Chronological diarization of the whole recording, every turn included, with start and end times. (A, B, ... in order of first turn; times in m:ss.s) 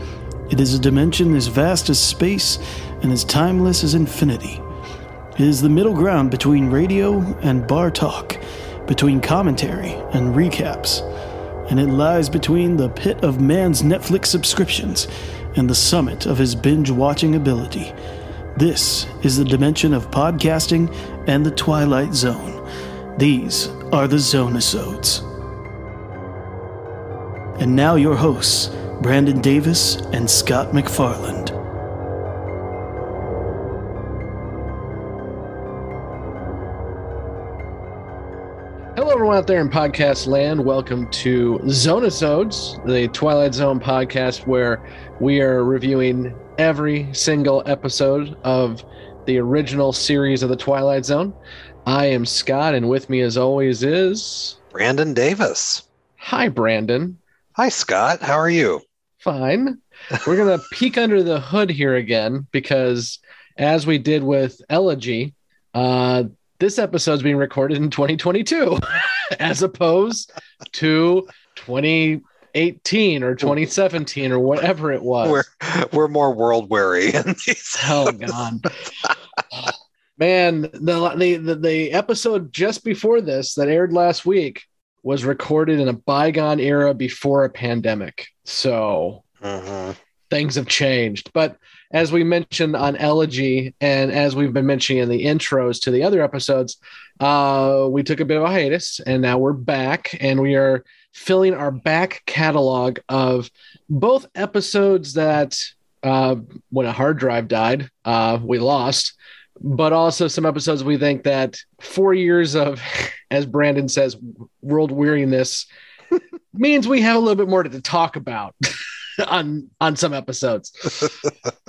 0:00.5-0:04.6 A
0:05.4-0:11.0 A
0:11.7-0:17.9 A
0:18.6-0:22.6 A
0:23.2-0:25.2 A
0:27.6-0:31.5 A
0:39.0-0:54.6 B
0:54.7-0:55.8 C
0:56.2-0:57.2 B
0:57.6-0:58.8 C
0:59.2-1:15.4 B
1:15.2-1:18.4 C
1:17.8-1:18.7 B
1:19.6-1:29.2 B
1:29.4-1:30.0 C
1:30.3-1:55.7 B
1:56.5-2:01.1 B